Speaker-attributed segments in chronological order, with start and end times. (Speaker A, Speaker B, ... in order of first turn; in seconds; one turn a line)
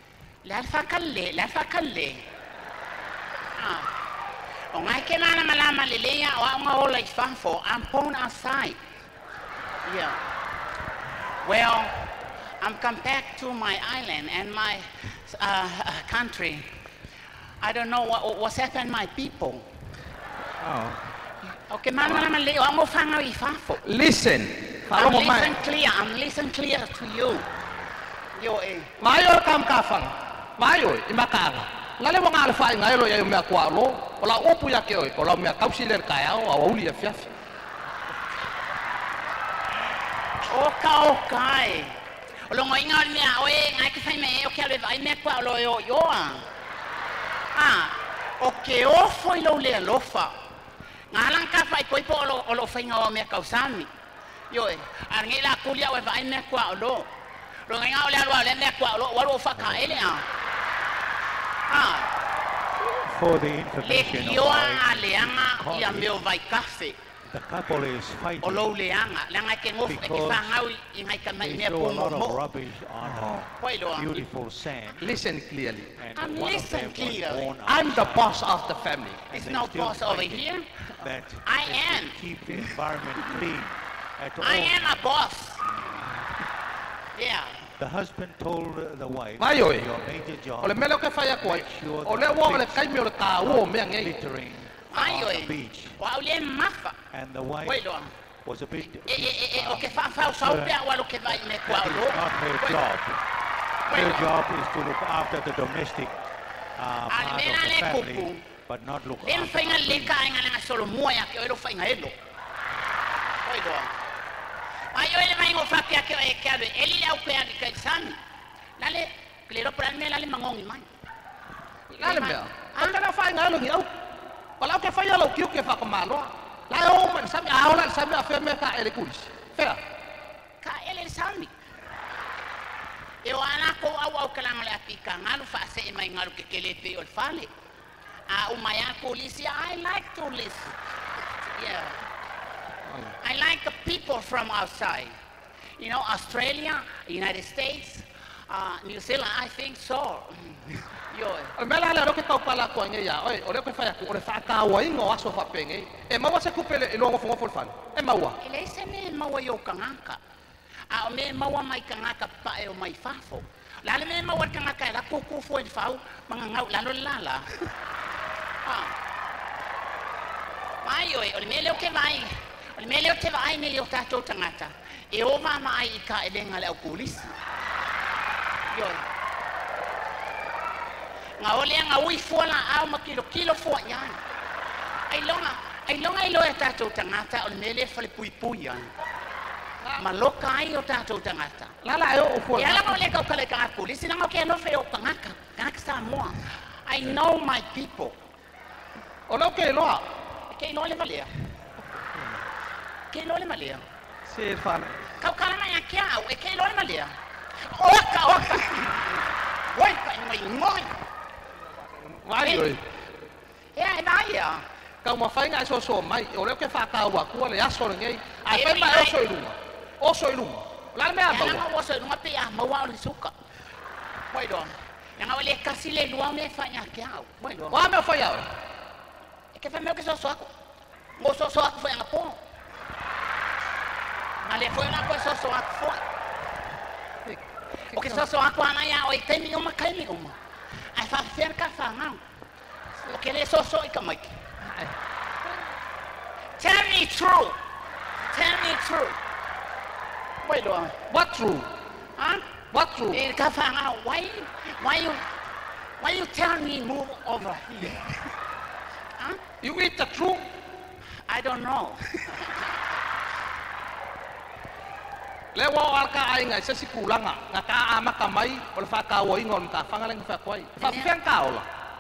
Speaker A: 0.4-2.2
Speaker A: 3.6-3.9
Speaker A: 4.7-8.8
Speaker A: 9.8-10.2
Speaker A: 11.4-11.9
Speaker A: 12.6-16.7
Speaker A: 17.6-19.6
Speaker B: 20.6-21.0
Speaker A: 21.7-23.8
Speaker B: 23.8-25.6
Speaker A: 24.9-27.5
Speaker A: 28.4-28.9
Speaker B: 29.0-37.3
Speaker A: 40.5-42.0
Speaker A: 42.5-46.5
Speaker A: 47.5-50.4
Speaker A: 51.1-53.9
Speaker A: 54.5-57.1
Speaker A: 57.7-60.2
Speaker A: 61.7-62.1
Speaker C: 62.9-66.2
Speaker A: 63.8-67.0
Speaker C: 67.2-68.7
Speaker A: 68.4-72.4
Speaker C: 69.8-70.6
Speaker C: 71.4-75.0
Speaker B: 73.0-73.4
Speaker A: 73.6-74.2
Speaker B: 75.0-75.9
Speaker C: 75.9-78.6
Speaker A: 76.2-77.5
Speaker B: 77.7-79.2
Speaker C: 79.3-80.5
Speaker A: 79.3-80.7
Speaker C: 81.0-85.0
Speaker A: 81.5-82.6
Speaker A: 84.4-85.8
Speaker A: 87.2-87.6
Speaker C: 87.8-90.9
Speaker B: 89.4-89.9
Speaker B: 90.6-94.2
Speaker C: 91.4-96.0
Speaker A: 94.9-97.0
Speaker C: 97.1-97.8
Speaker A: 97.7-98.1
Speaker C: 98.4-100.8
Speaker A: 99.1-102.8
Speaker C: 101.7-103.2
Speaker A: 103.9-104.3
Speaker C: 103.9-106.2
Speaker C: 106.8-110.2
Speaker A: 107.1-108.4
Speaker A: 109.2-112.2
Speaker A: 113.5-113.9
Speaker A: 114.9-118.2
Speaker A: 118.8-120.9
Speaker B: 121.9-123.9
Speaker A: 122.0-123.0
Speaker B: 124.6-129.8
Speaker A: 130.6-131.5
Speaker A: 133.2-137.5
Speaker A: 138.3-140.8
Speaker A: 141.5-142.0
Speaker B: 142.9-143.1
Speaker A: 143.2-145.1
Speaker A: 145.8-151.6
Speaker B: 151.6-158.4
Speaker A: 158.4-160.2
Speaker A: 160.9-167.5
Speaker A: 168.6-168.9
Speaker A: 170.8-177.3
Speaker A: 178.7-179.0
Speaker A: 181.4-184.2
Speaker A: 185.1-188.9
Speaker A: 190.0-191.8
Speaker B: 191.8-193.0
Speaker A: 192.5-198.2
Speaker B: 199.3-200.1
Speaker A: 200.5-201.3
Speaker A: 203.1-203.8
Speaker B: 204.3-205.0
Speaker A: 205.2-210.9
Speaker B: 212.1-212.8
Speaker A: 212.4-212.7
Speaker A: 213.8-214.6
Speaker B: 215.0-221.7
Speaker A: 218.5-219.2
Speaker A: 221.3-223.3
Speaker A: 224.3-227.9
Speaker B: 227.7-228.5
Speaker A: 229.5-230.5
Speaker A: 231.2-232.4
Speaker A: 234.4-236.0
Speaker B: 237.2-238.2
Speaker A: 237.9-240.3
Speaker A: 240.9-242.2
Speaker A: 243.0-244.3
Speaker B: 244.6-244.9
Speaker A: 246.6-247.6
Speaker A: 248.3-249.2
Speaker A: 250.4-251.0
Speaker B: 251.1-251.7
Speaker A: 252.2-252.5
Speaker B: 252.7-253.2
Speaker A: 253.1-255.2
Speaker A: 256.0-258.3
Speaker B: 259.6-260.4
Speaker A: 261.3-262.8
Speaker B: 265.5-271.7
Speaker A: 270.8-271.1